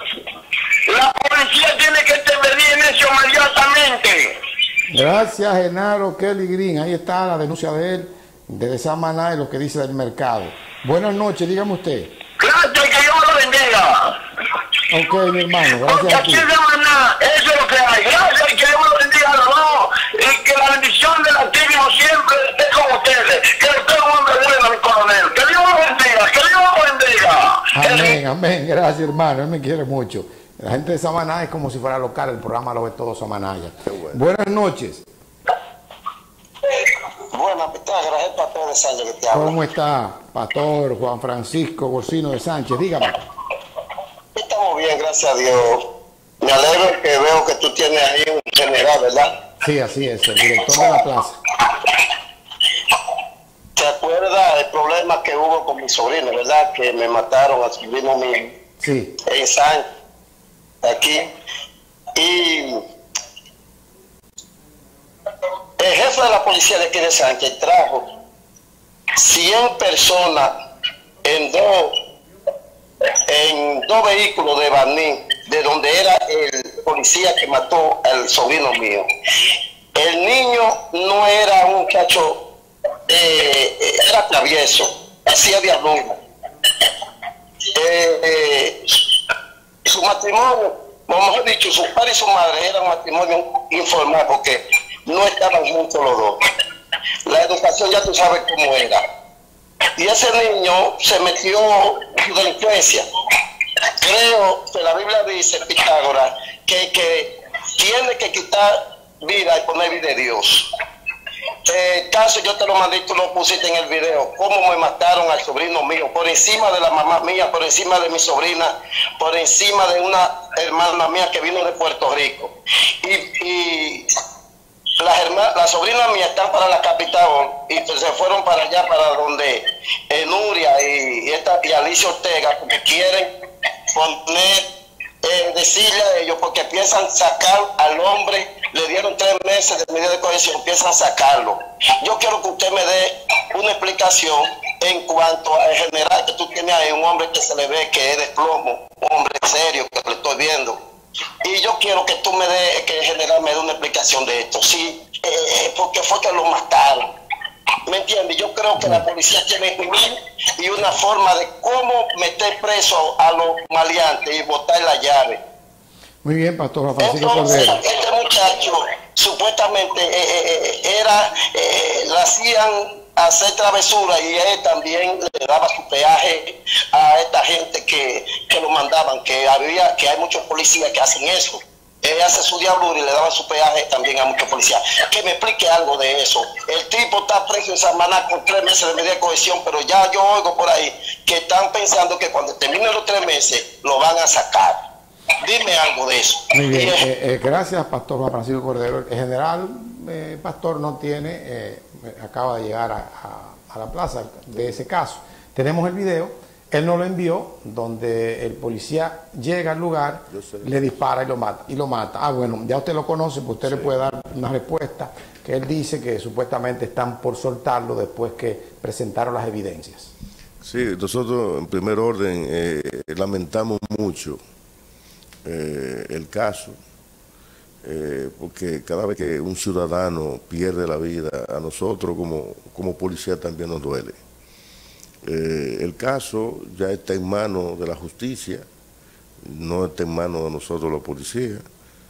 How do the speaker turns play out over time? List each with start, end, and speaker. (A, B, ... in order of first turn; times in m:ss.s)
0:00.9-0:04.4 A
0:04.9-0:12.1 B
0:12.4-0:14.2 A
0:14.9-0:16.5 B
0:15.7-0:28.2 A
0:27.7-0:35.0 B
0:33.8-0:34.2 C
0:36.7-0:39.5 D
0:39.3-0:43.2 B
0:44.4-0:45.9 D
0:46.4-0:49.3 D
0:49.6-0:51.4 B
0:53.8-0:58.5 D
0:58.8-0:59.1 B
0:59.2-0:59.9 D
1:00.8-1:01.3 D
1:02.2-1:02.8 D
1:05.8-1:08.1 D
1:09.2-1:10.5 D
1:11.2-1:11.9 D
1:13.1-1:19.1 D
1:19.9-1:22.4 D
1:23.1-1:26.2 D
1:27.7-1:29.1 D
1:29.8-1:36.4 D
1:37.2-1:39.0 D
1:40.0-1:43.1 D
1:44.0-1:50.7 D
1:51.6-2:04.1 D
2:05.0-2:13.3 D
2:13.9-2:14.7 D
2:15.2-2:30.8 D
2:31.4-2:37.0 D
2:37.9-2:45.4 D
2:38.8-2:39.0 B
2:46.2-2:47.8 B
2:47.0-3:14.8 D
3:15.4-3:17.0 D
3:16.5-3:40.1 B
3:30.3-3:30.7 C
3:33.6-3:33.9 C
3:40.6-3:44.4 C
3:45.4-3:46.8 C
3:47.8-3:54.2 C
3:55.2-3:58.6 C
3:59.4-4:01.6 C